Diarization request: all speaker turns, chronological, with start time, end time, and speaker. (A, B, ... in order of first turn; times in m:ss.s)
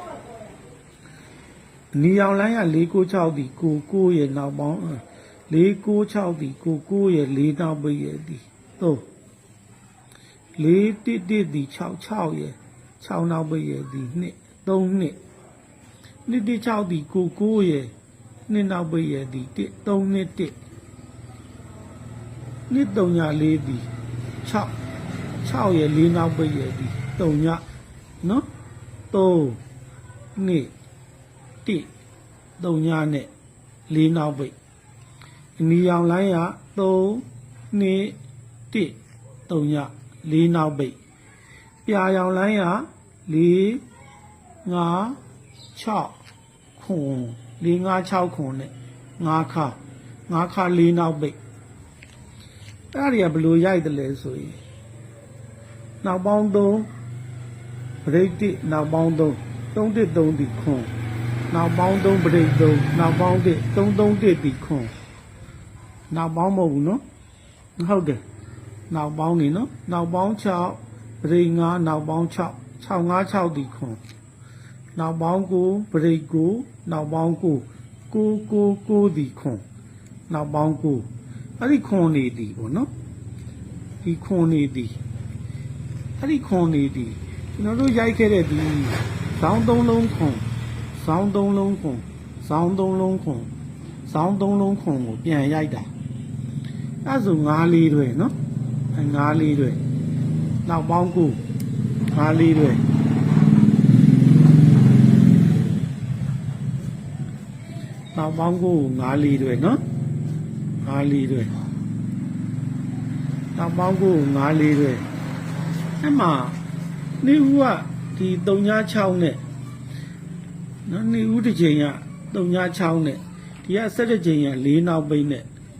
0:01.9-0:09.0 A
0:10.6-0:15.2 A
0:16.2-0:17.9 A
0:18.5-0:20.5 A
0:22.7-0:23.9 A
0:24.4-0:24.7 A
0:25.4-0:27.6 A
0:28.2-0:28.4 A
0:29.1-0:29.6 A
0:30.4-0:30.7 A
0:31.6-0:31.9 A
0:32.6-0:33.3 A
0:33.9-0:34.5 A
0:35.6-0:38.2 A
0:38.7-0:41.0 A
0:41.8-0:43.8 A
0:44.6-0:45.2 A
0:45.7-0:46.2 A
0:46.8-0:49.8 A
0:50.3-0:51.4 A
0:52.9-0:54.6 A
0:56.0-0:56.9 A
0:58.0-1:00.9 A
1:01.5-1:04.9 A
1:06.1-1:07.0 A
1:07.8-1:08.2 A
1:08.9-1:14.0 A
1:14.9-1:19.6 A
1:20.3-1:21.1 A
1:21.6-1:22.9 A
1:24.0-1:25.0 A
1:26.2-1:30.4 A
1:30.9-1:33.5 A
1:34.0-1:35.9 A
1:37.0-1:38.3 A
1:38.9-1:39.8 A
1:40.6-1:41.4 A
1:42.1-1:42.8 A
1:48.1-1:49.8 A
1:50.8-1:51.5 A
1:53.5-1:55.0 A
1:56.0-1:56.6 A
1:57.2-1:59.4 A
2:00.8-2:05.4 A